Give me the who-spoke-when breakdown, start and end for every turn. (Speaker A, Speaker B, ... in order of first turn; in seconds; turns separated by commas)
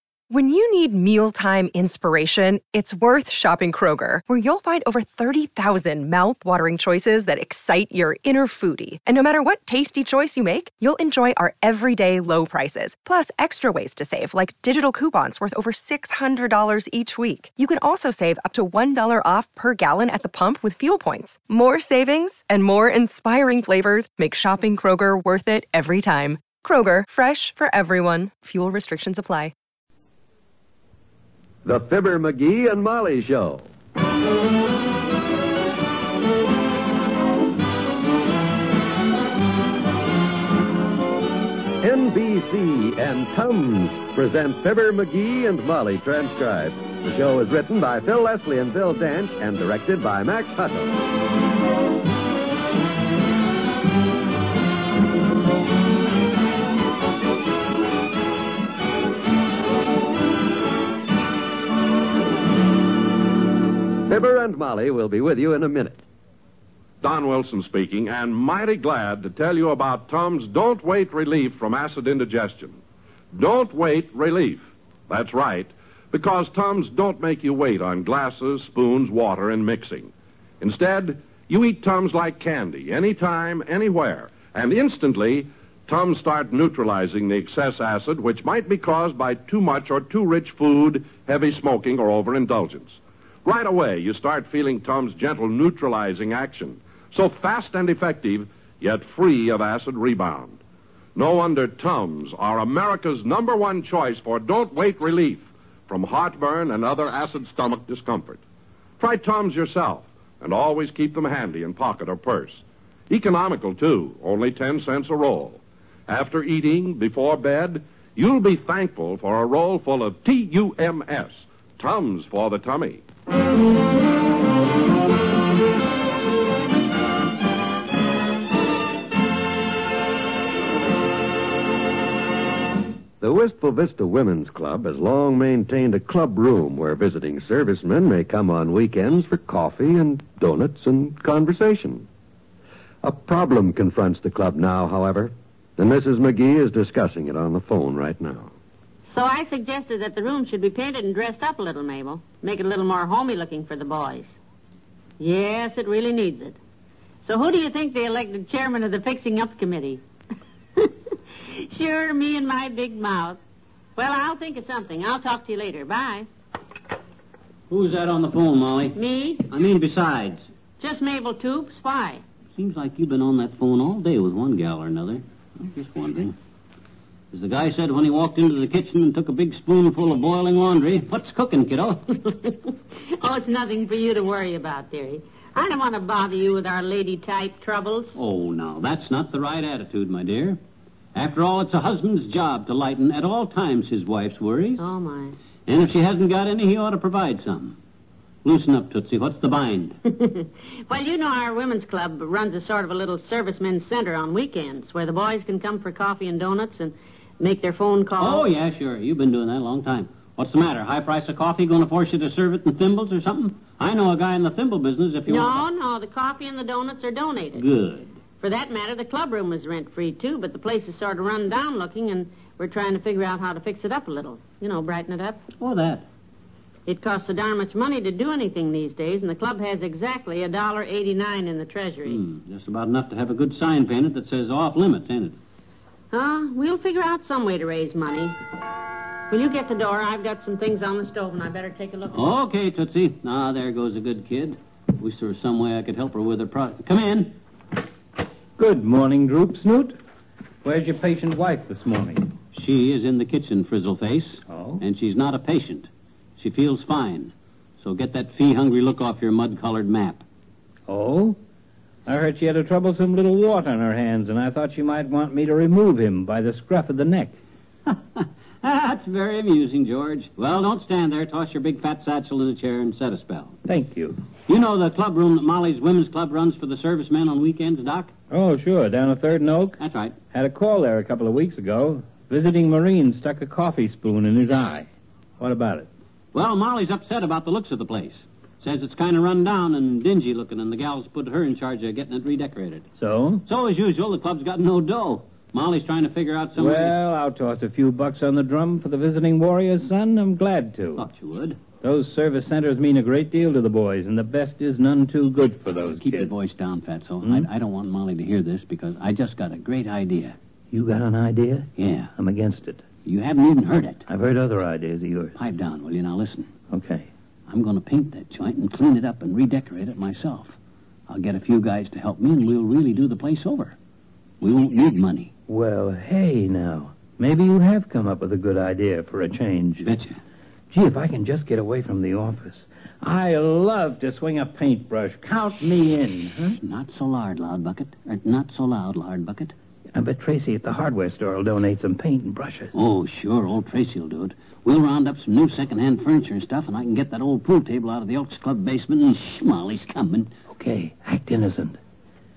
Speaker A: 0.3-29.5, Speaker B: 31.6-33.6, Speaker B: 41.8-51.0, Speaker B: 64.0-66.0, Speaker C: 67.0-72.8, Speaker C: 73.3-100.6, Speaker C: 101.1-108.4, Speaker C: 109.0-123.0, Speaker B: 133.2-142.1, Speaker B: 143.0-148.5, Speaker D: 149.1-154.3, Speaker D: 155.2-156.6, Speaker D: 157.2-160.0, Speaker D: 160.7-163.4, Speaker D: 163.9-166.3, Speaker E: 167.7-169.0, Speaker D: 168.9-169.5, Speaker E: 169.5-170.4, Speaker D: 170.8-172.2, Speaker E: 172.6-176.3, Speaker E: 177.3-182.5, Speaker D: 182.4-188.2, Speaker E: 188.1-190.6, Speaker E: 191.1-194.8, Speaker D: 194.8-195.4, Speaker E: 195.7-197.8, Speaker E: 198.4-200.0, Speaker D: 200.0-208.5, Speaker E: 208.2-215.6, Speaker D: 215.3-217.6, Speaker E: 217.5-218.1, Speaker D: 218.4-225.4, Speaker E: 225.6-226.0, Speaker D: 226.8-232.2, Speaker E: 232.0-235.4, Speaker D: 236.1-238.6, Speaker D: 239.3-242.2, Speaker E: 242.1-247.4, Speaker F: 248.6-250.0, Speaker F: 250.6-252.3, Speaker E: 252.5-260.2, Speaker F: 254.5-254.8, Speaker F: 260.9-261.4, Speaker F: 262.1-267.3, Speaker E: 267.9-273.6, Speaker F: 273.7-274.2, Speaker E: 274.5-278.1, Speaker F: 278.3-279.8, Speaker E: 279.8-280.1, Speaker F: 280.3-284.9, Speaker F: 285.4-285.9, Speaker E: 286.3-292.9, Speaker F: 293.0-293.4, Speaker E: 293.4-296.9, Speaker F: 296.6-301.0, Speaker E: 300.9-301.6, Speaker F: 301.8-306.3, Speaker E: 305.9-310.4, Speaker F: 310.7-312.8, Speaker E: 311.8-312.1, Speaker E: 313.0-314.0, Speaker F: 314.1-315.3, Speaker E: 315.4-316.5, Speaker F: 316.7-317.1, Speaker E: 317.5-320.5, Speaker E: 321.1-323.8, Speaker E: 324.4-325.3, Speaker F: 325.5-329.9, Speaker E: 329.8-330.2, Speaker F: 330.7-336.6, Speaker E: 336.6-339.5, Speaker F: 339.9-342.7, Speaker E: 342.7-350.3, Speaker F: 350.5-351.8